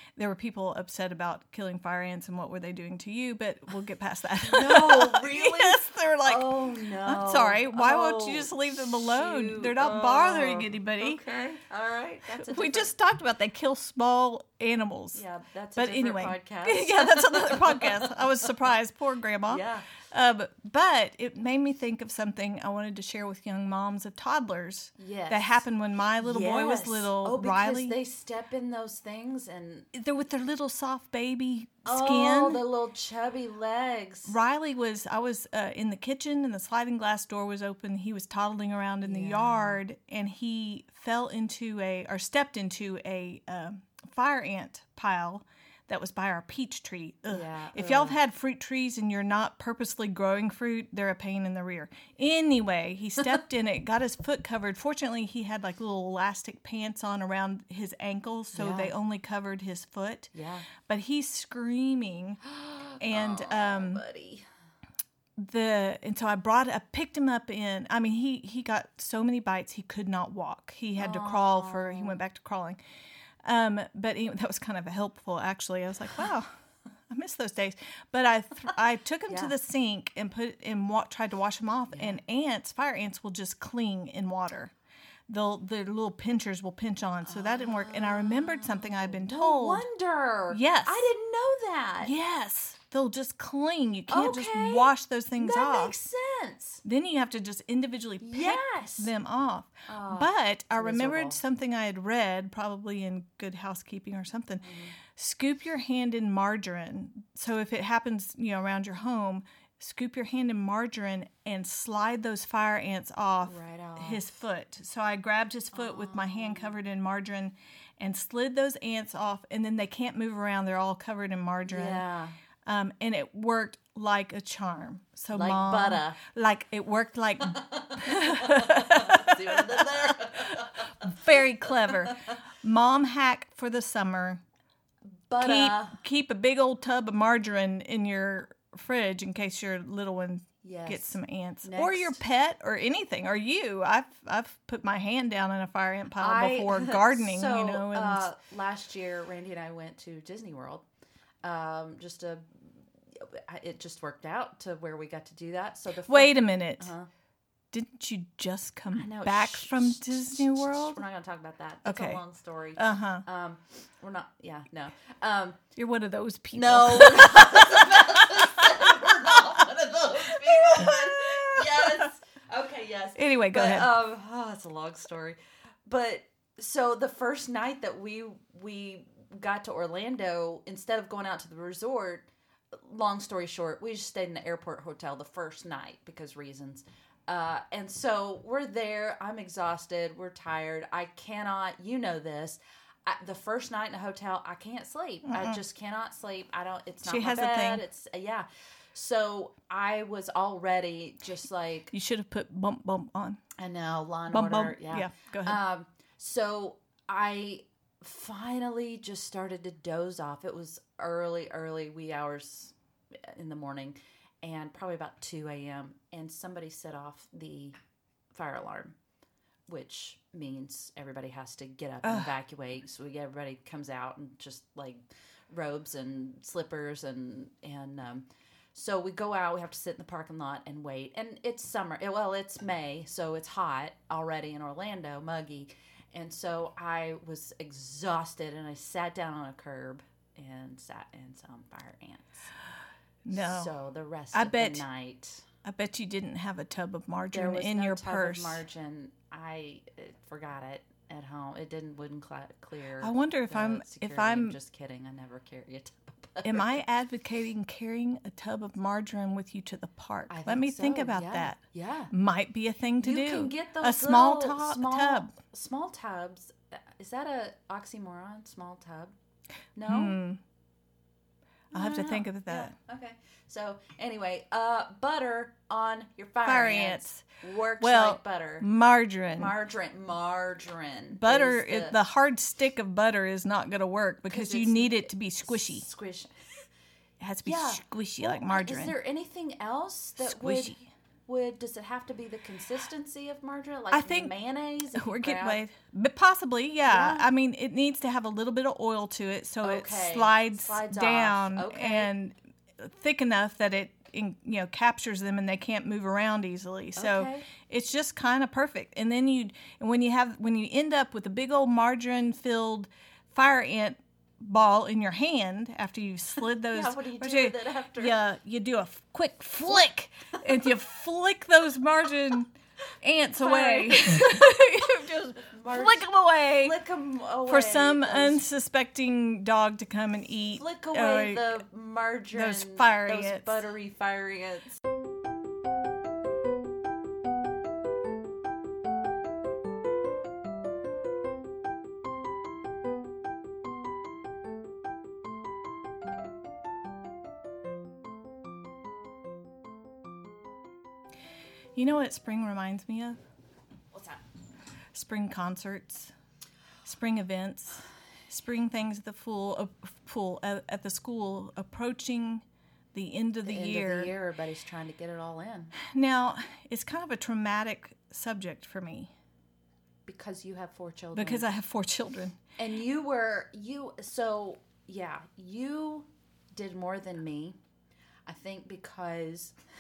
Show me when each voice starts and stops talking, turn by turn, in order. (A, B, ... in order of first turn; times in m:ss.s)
0:00.2-0:06.5 A
0:04.4-0:12.9 B
0:07.0-0:11.2 A
0:12.3-0:15.2 A
0:15.1-0:18.5 B
0:15.8-0:28.0 A
0:19.5-0:19.8 B
0:25.0-0:25.6 B
0:26.2-0:29.9 B
0:29.9-0:32.6 A
0:31.8-0:34.3 B
0:34.3-1:02.4 A
0:39.0-0:39.8 B
0:47.3-0:48.2 B
0:58.5-0:58.9 B
1:00.3-1:00.7 B
1:02.4-1:04.4 B
1:03.0-1:04.0 A
1:05.4-1:12.8 A
1:11.0-1:12.2 B
1:13.4-1:16.5 A
1:17.1-1:24.7 A
1:19.3-1:19.5 B
1:21.9-1:22.2 B
1:25.3-1:29.8 A
1:27.3-1:32.1 B
1:30.5-1:31.1 A
1:32.0-1:36.0 A
1:34.1-1:36.8 B
1:36.8-2:02.0 A
1:38.2-1:39.1 B
1:39.9-1:41.4 B
1:44.6-1:45.0 B
1:53.5-1:54.4 B
1:55.7-1:56.8 B
2:01.7-2:02.4 B
2:02.7-2:14.4 A
2:05.3-2:06.2 B
2:07.5-2:12.3 B
2:15.3-2:16.0 B
2:15.4-2:28.3 A
2:20.6-2:22.2 B
2:26.2-2:30.8 B
2:31.4-2:37.1 B
2:36.1-2:36.9 A
2:37.7-2:41.0 A
2:38.9-2:45.6 B
2:41.8-2:42.2 A
2:42.8-2:43.2 A
2:45.8-2:49.6 A
2:46.5-3:21.9 B
2:50.3-2:52.1 A
2:53.2-2:53.9 A
3:15.3-3:15.6 A
3:17.0-3:17.8 A
3:21.9-3:23.4 A
3:23.6-3:37.8 B
3:24.3-3:25.6 A
3:38.3-3:39.0 B
3:39.7-4:02.5 B
3:42.0-3:42.3 A
4:03.2-4:03.7 A
4:03.3-4:05.5 B
4:04.3-4:04.8 A
4:05.6-4:08.6 A
4:07.3-4:16.8 B
4:13.0-4:14.6 A
4:16.4-4:21.6 A
4:20.3-4:22.1 B
4:22.1-4:25.3 A
4:23.0-4:29.1 B
4:29.8-4:30.2 B
4:29.9-4:30.4 A
4:31.7-4:32.7 A
4:31.7-4:38.7 B
4:36.4-4:37.2 A
4:37.8-4:39.5 A
4:39.4-4:42.0 B
4:41.2-4:45.9 A
4:44.3-4:46.6 B
4:47.2-4:49.0 A
4:47.4-4:55.6 B
4:50.2-4:50.9 A
4:53.9-4:54.3 A
4:54.9-5:22.5 A
4:56.8-4:57.3 B
4:59.6-5:02.1 B
5:07.0-5:07.5 B
5:16.7-5:18.2 B
5:23.0-5:26.8 A
5:23.4-5:26.0 B
5:26.6-5:28.4 B
5:27.5-5:31.6 A
5:30.5-5:34.8 B
5:32.3-5:33.6 A
5:51.8-5:53.2 A
5:53.9-5:54.2 B
5:54.9-5:56.1 A
5:56.8-6:04.1 A
6:03.4-6:05.8 B
6:05.8-6:09.1 A
6:10.1-6:11.5 B
6:11.2-6:12.4 A
6:12.6-6:17.6 B
6:18.3-6:19.6 B